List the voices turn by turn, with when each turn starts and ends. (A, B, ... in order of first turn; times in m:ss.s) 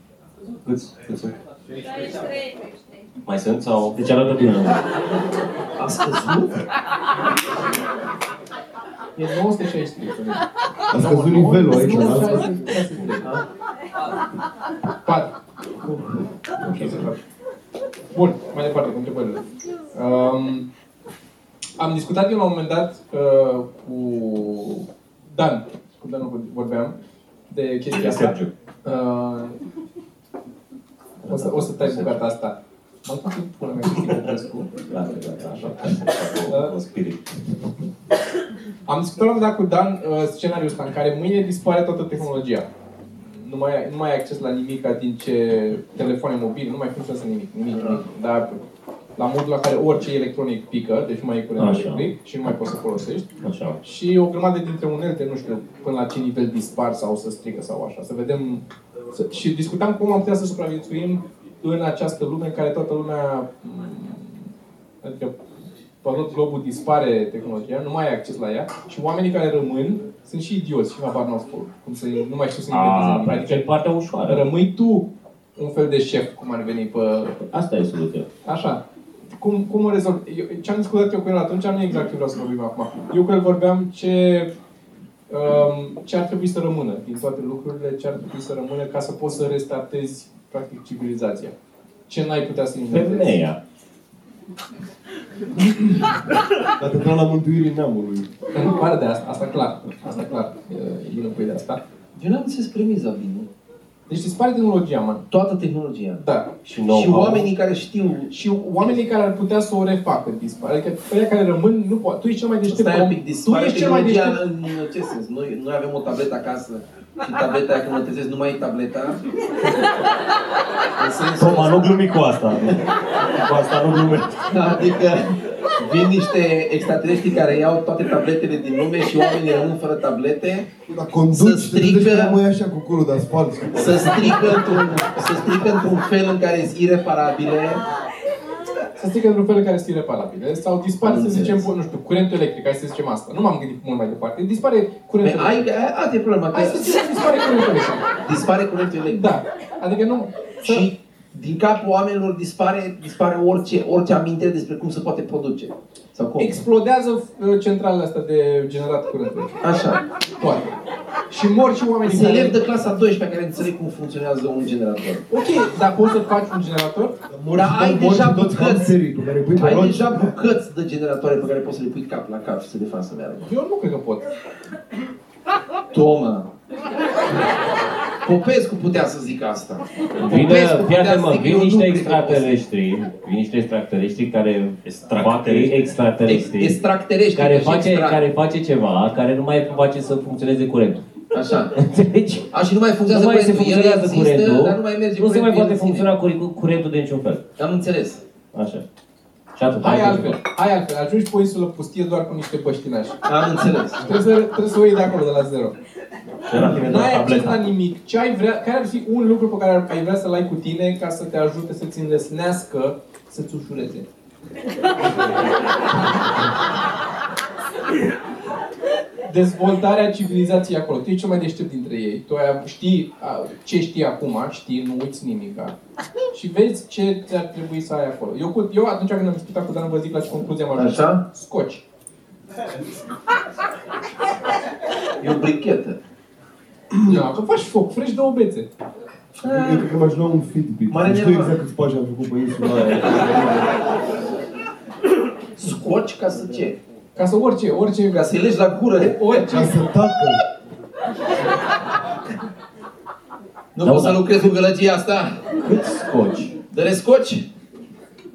0:00.6-0:01.2 A
0:00.9-0:01.3 B
0:03.2-0:04.0 B
0:04.0-0:04.8 A
0:05.8-0:06.6 C
0:09.2-0:13.3 D
0:10.9-0:12.9 E
0:15.0-0:15.3 D
0:16.6-0:17.2 D
0:18.1-0:20.7 D
0:21.8-0:26.9 D
0:27.5-0:29.6 D
0:27.9-0:28.5 B
0:31.2-0:32.2 B
0:31.3-0:34.7 D
0:34.9-0:36.0 A
0:35.4-0:35.9 D
0:35.8-0:37.2 B
0:36.5-0:36.7 D
0:38.8-0:42.7 D
0:43.3-0:48.6 D
0:49.2-0:53.3 D
0:51.6-0:52.1 A
0:53.4-0:53.8 A
0:53.8-1:04.4 D
1:05.0-1:05.3 D
1:06.0-1:13.6 D
1:12.7-1:14.4 A
1:14.2-1:17.4 D
1:17.5-1:18.3 A
1:18.4-1:18.8 D
1:19.4-1:24.5 D
1:25.3-1:31.5 D
1:32.1-1:33.4 D
1:32.9-1:33.6 A
1:36.8-1:38.3 E
1:38.5-1:41.8 D
1:42.1-1:43.5 C
1:44.1-1:45.2 D
1:45.3-1:46.2 C
1:46.2-1:46.5 D
1:46.6-1:47.5 B
1:46.8-1:48.9 C
1:48.3-1:54.4 D
1:52.7-1:59.2 C
2:01.0-2:01.9 C
2:01.4-2:04.4 A
2:04.5-2:10.7 C
2:10.8-2:14.8 E
2:11.3-2:12.3 C
2:13.7-2:17.8 C
2:19.0-2:25.7 D
2:21.0-2:21.7 C
2:25.2-2:26.9 C
2:26.5-2:28.1 D
2:28.2-2:29.3 C
2:29.1-2:30.9 D
2:30.6-2:36.5 C
2:36.4-2:39.5 D
2:39.6-2:40.0 C
2:40.4-2:40.7 D
2:41.3-2:42.6 D
2:42.0-2:45.2 C
2:45.3-2:47.2 D
2:47.3-2:50.3 E
2:47.5-2:48.9 C
2:49.6-2:53.4 C
2:53.4-2:54.2 D
2:55.9-2:56.5 C
2:58.2-3:02.5 C
3:00.2-3:06.8 A
3:04.8-3:05.8 B
3:06.2-3:08.2 C
3:07.3-3:11.0 A
3:11.3-3:11.7 C
3:11.7-3:12.5 A
3:12.5-3:16.1 C
3:13.1-3:17.4 A
3:17.6-3:18.2 C
3:18.5-3:18.8 A
3:19.5-3:20.4 A
3:19.8-3:23.2 D
3:23.2-3:24.0 C
3:24.0-3:25.7 D
3:26.4-3:27.6 A
3:26.5-3:27.4 B
3:26.5-3:34.0 D
3:39.2-3:45.7 D
3:46.3-3:51.8 D
3:50.8-3:51.2 C
3:55.2-3:56.0 C
3:57.0-3:58.7 D
3:59.4-3:59.9 C
3:59.4-4:03.7 E
4:00.9-4:01.5 C
4:05.6-4:06.8 C
4:07.2-4:08.3 D
4:08.1-4:09.6 C
4:08.9-4:09.8 D
4:09.5-4:10.4 E
4:13.7-4:15.5 C
4:13.8-4:14.5 A
4:15.6-4:16.5 A
4:16.7-4:17.5 C